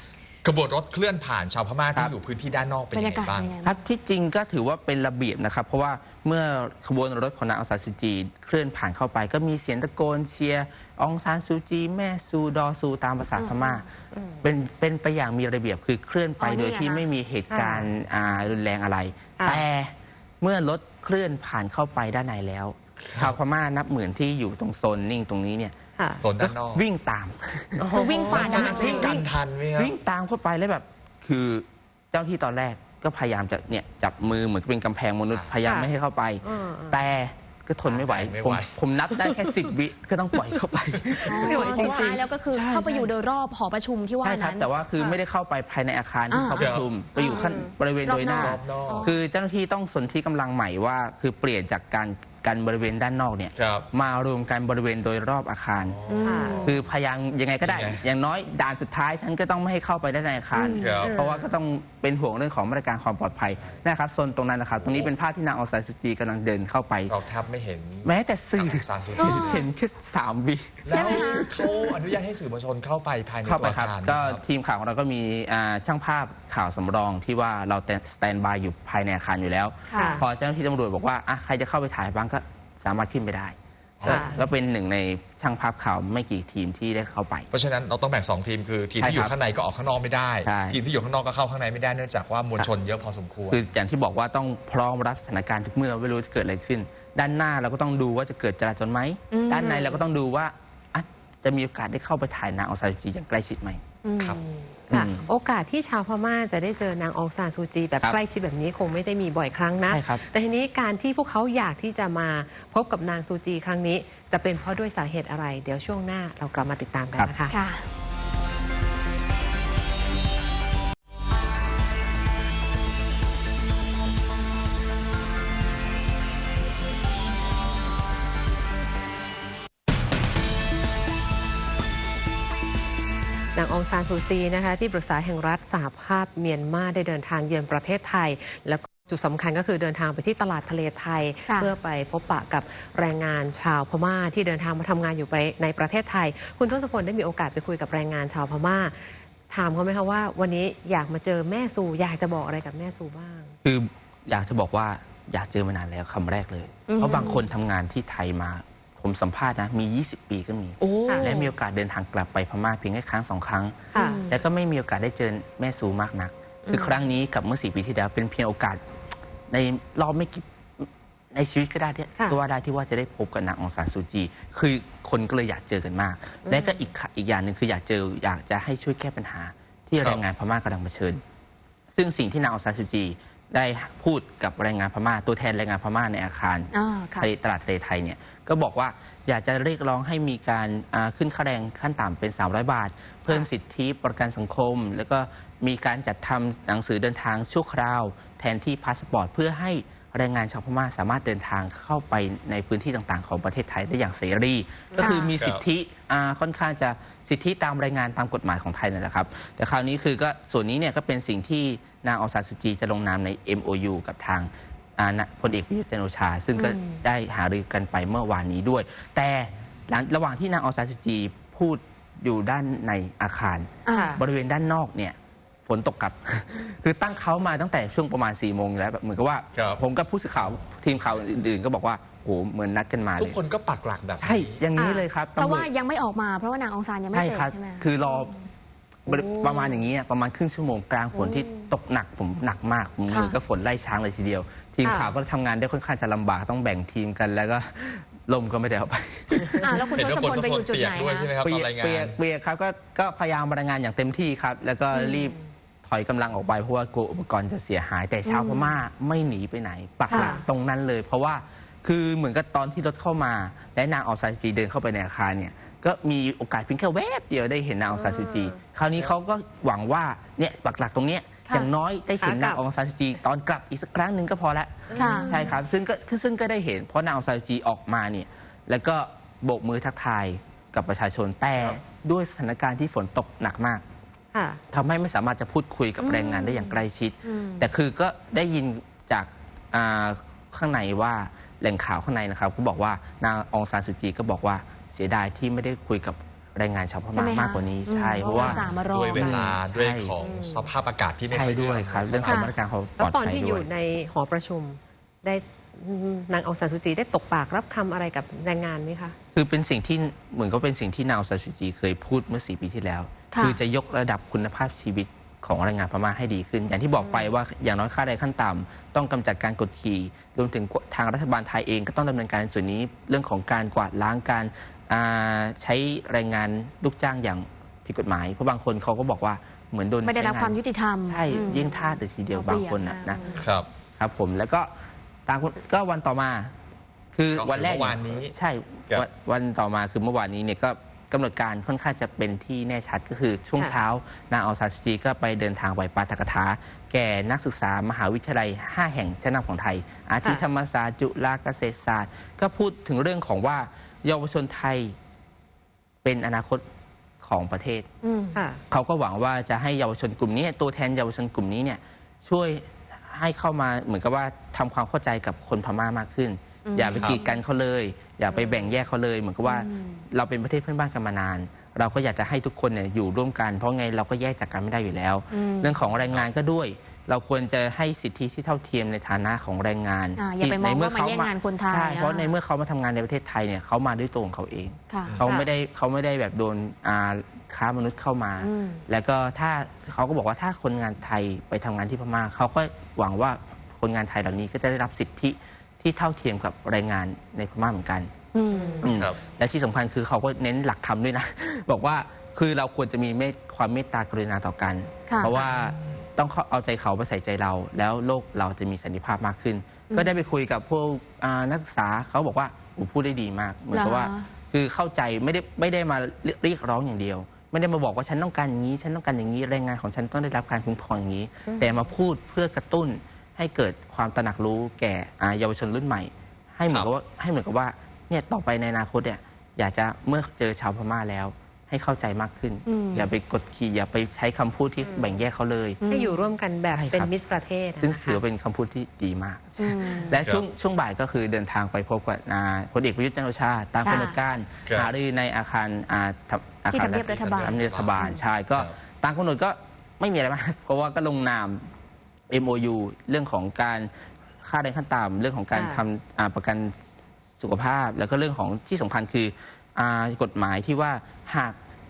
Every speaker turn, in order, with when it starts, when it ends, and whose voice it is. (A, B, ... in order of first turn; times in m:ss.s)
0:00.4-0:03.6 A
0:02.9-0:03.8 B
0:03.6-0:13.8 C
0:13.4-0:13.8 B
0:14.1-0:14.4 D
0:14.4-0:25.8 C
0:16.4-0:17.1 B
0:17.5-0:17.9 D
0:19.4-0:19.6 D
0:23.1-0:23.4 A
0:26.2-0:26.8 A
0:26.4-0:43.1 C
0:27.8-0:29.2 D
0:27.9-0:29.1 B
0:28.3-0:29.9 A
0:35.6-0:35.9 D
0:36.4-0:37.0 D
0:37.8-0:38.7 A
0:39.2-0:39.6 D
0:41.1-0:42.2 D
0:41.3-0:44.7 B
0:44.2-1:07.1 C
0:46.3-0:49.2 B
0:46.6-0:46.9 A
0:47.2-0:47.7 D
0:48.3-0:49.1 A
0:53.6-0:53.9 A
0:55.9-0:56.9 A
0:56.1-0:56.6 B
0:56.2-0:56.8 D
0:57.6-0:58.1 A
1:00.6-1:01.5 D
1:00.8-1:01.2 A
1:03.5-1:03.8 A
1:04.8-1:05.1 A
1:07.1-1:09.6 A
1:08.0-1:11.9 C
1:09.2-1:09.7 B
1:10.8-1:14.4 A
1:10.9-1:11.8 B
1:13.4-1:27.5 C
1:19.9-1:20.2 B
1:20.0-1:20.2 D
1:24.0-1:24.4 A
1:24.1-1:24.4 D
1:27.5-1:33.6 A
1:29.0-1:29.3 C
1:30.4-1:30.8 C
1:33.5-1:43.8 C
1:39.3-1:39.8 B
1:39.6-1:40.0 D
1:44.0-1:44.3 B
1:44.2-1:57.6 D
1:44.9-1:45.3 C
1:49.8-1:50.2 C
1:57.5-1:57.9 B
2:13.6-2:33.5 D
2:33.6-2:48.8 C
2:36.9-2:37.4 B
2:40.8-2:41.5 B
2:41.1-2:41.3 D
2:43.9-2:44.2 D
2:44.0-2:44.3 B
2:46.7-2:47.0 D
2:49.5-3:01.2 C
2:56.4-2:56.8 D
3:02.0-3:45.2 C
3:06.7-3:07.3 B
3:25.0-3:25.3 B
3:25.3-3:25.6 A
3:36.6-3:36.8 B
3:43.9-3:44.2 B
3:43.9-3:44.2 D
3:45.7-3:53.4 C
3:49.5-3:49.8 A
3:53.2-3:54.6 A
3:54.2-3:55.7 C
3:54.8-3:55.1 D
3:55.4-3:57.9 B
3:57.1-3:58.4 C
3:59.1-3:59.8 D
3:59.1-4:09.9 C
4:01.1-4:01.7 D
4:03.1-4:03.4 B
4:04.8-4:05.2 D
4:09.6-4:11.3 B
4:09.9-4:12.2 A
4:11.4-4:43.8 C
4:15.0-4:15.3 D
4:18.3-4:18.7 B
4:20.1-4:20.4 B
4:20.1-4:20.5 D
4:27.9-4:28.6 D
4:32.2-4:32.6 D
4:34.9-4:35.6 D
4:35.0-4:35.4 B
4:44.3-4:44.6 D
4:44.7-5:00.2 C
4:46.0-4:47.6 B
4:57.1-4:59.4 B
4:58.2-4:59.5 D
4:58.9-5:02.5 A
5:00.2-5:00.7 D
5:01.3-5:03.7 C
5:02.2-5:02.6 B
5:03.0-5:09.2 D
5:09.3-5:33.4 C
5:13.3-5:13.6 B
5:17.0-5:17.3 D
5:30.0-5:33.4 B
5:33.4-5:33.7 A
5:34.0-5:34.7 C
5:35.3-5:36.5 C
5:37.2-5:55.0 C
5:37.4-5:38.4 A
5:56.0-5:56.6 C
5:57.2-5:57.9 C
5:58.0-5:58.4 B
5:58.3-5:58.6 D
5:58.7-6:38.1 C
6:06.7-6:07.4 B
6:06.9-6:07.2 A
6:09.4-6:10.0 B
6:15.3-6:15.8 B
6:20.2-6:22.3 B
6:24.9-6:25.2 B
6:28.4-6:28.8 B
6:38.3-6:38.9 B
6:38.5-6:38.9 D
6:38.8-7:15.8 C
6:38.8-6:39.2 A
6:45.1-6:45.4 B
6:53.7-6:54.3 B
7:01.5-7:01.8 D
7:12.7-7:13.1 B
7:14.8-7:15.2 D
7:15.8-7:16.2 B
7:15.9-7:18.2 D
7:16.7-7:17.1 C
7:17.8-7:31.7 C
7:19.6-7:20.2 B
7:23.8-7:24.2 B
7:24.7-7:24.9 A
7:26.7-7:27.6 B
7:27.1-7:28.8 A
7:32.3-7:33.9 C
7:34.4-7:36.8 C
7:35.5-7:35.8 D
7:37.4-7:41.6 C